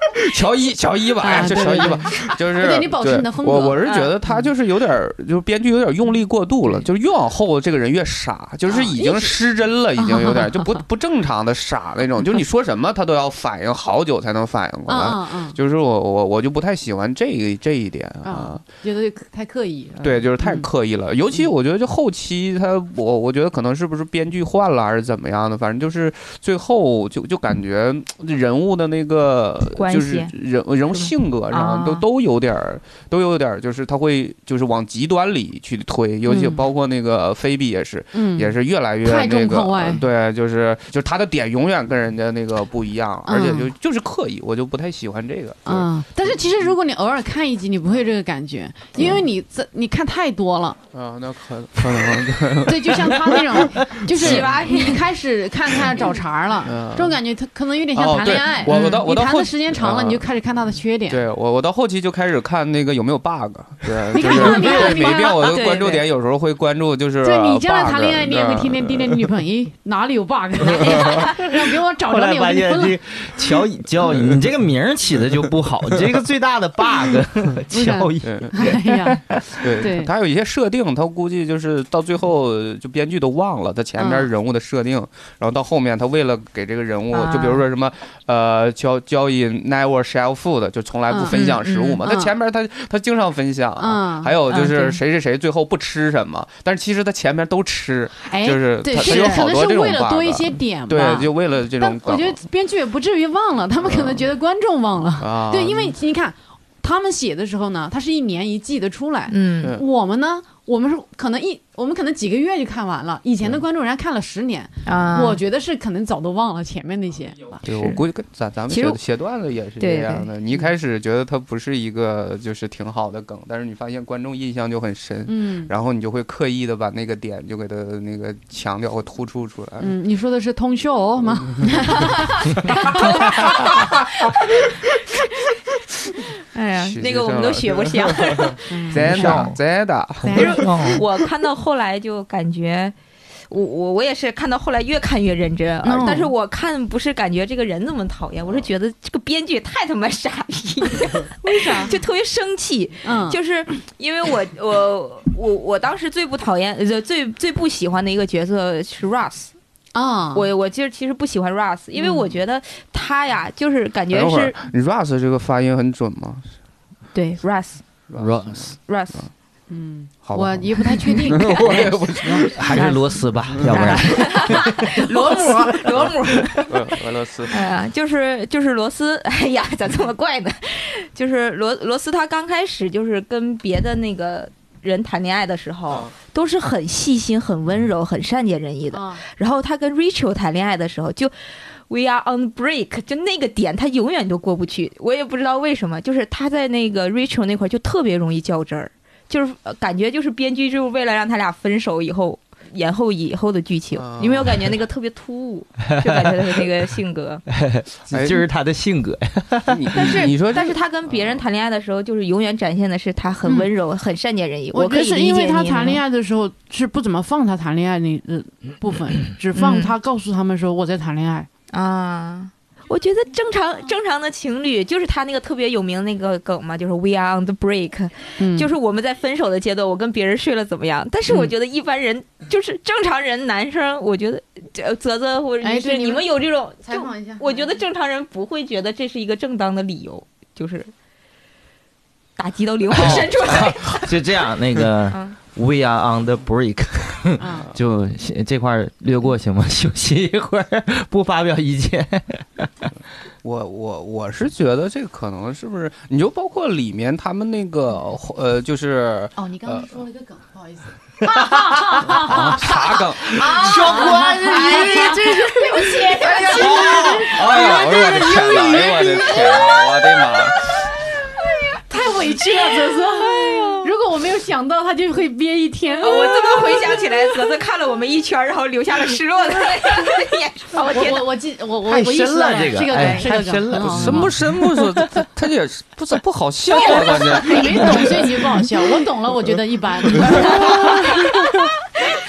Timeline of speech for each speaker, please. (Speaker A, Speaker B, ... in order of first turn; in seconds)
Speaker A: 0.1-18.6, 20.0-46.4, 50.9-53.6, 54.2-54.8, 56.6-57.2, 58.0-60.2, 61.1-69.3, 70.8-71.1, 78.2-78.5, 79.6-102.4, 103.8-104.3, 105.2-106.0, 117.6-129.9, 136.8-140.5, 164.1-166.5, 168.1-168.7, 170.2-172.6, 173.6-174.0, 176.7-177.6, 204.0-204.6, 208.1-208.4, 209.7-211.4, 243.0-243.7, 253.4-260.0, 262.1-263.7, 266.9-270.6, 283.8-288.5, 290.2-290.6
Speaker B: 1.2-4.5, 8.7-9.4, 10.0-10.5, 14.9-15.6, 18.2-20.7, 36.3-36.6, 38.1-40.0, 43.3-43.7, 45.7-50.8, 52.6-61.2, 64.1-65.5, 67.2-73.0, 77.7-79.2, 79.8-80.1, 84.0-84.3, 91.1-91.5, 92.0-92.3, 93.8-94.4, 98.2-117.7, 125.3-125.7, 129.8-133.9, 138.7-139.5, 140.2-141.0, 145.8-146.3, 151.4-152.0, 153.0-153.4, 159.9-160.5, 162.0-162.3, 169.7-173.0, 188.9-189.2, 214.7-221.5, 228.4-228.7, 235.6-236.3, 236.8-237.7, 247.4-247.7, 259.4-269.9, 271.9-277.4, 280.9-284.3, 286.8-291.5
Speaker C: 3.8-4.1, 29.8-30.3, 30.9-32.0, 54.1-55.0, 58.7-59.0, 64.5-66.0, 87.1-87.6, 91.3-92.0, 94.5-95.0, 109.3-109.8, 114.8-115.4, 117.7-118.0, 118.7-119.0, 119.8-120.3, 132.6-134.4, 136.4-138.9, 140.3-142.9, 143.5-159.5, 160.3-164.6, 167.1-167.8, 168.9-169.3, 172.7-172.9, 173.7-176.7, 177.5-207.4, 209.9-216.0, 219.6-219.9, 221.7-240.9, 242.4-244.2, 245.1-245.4, 263.4-268.4, 269.0-269.9, 272.6-273.8, 276.0-281.3, 282.9-283.3, 286.7-288.0, 290.3-291.3
Speaker D: 72.1-79.7, 139.0-139.6, 140.2-141.0, 168.2-168.7, 171.6-175.7, 207.5-210.2, 243.0-252.9, 261.3-262.5, 263.4-267.4, 281.9-284.4, 290.5-290.9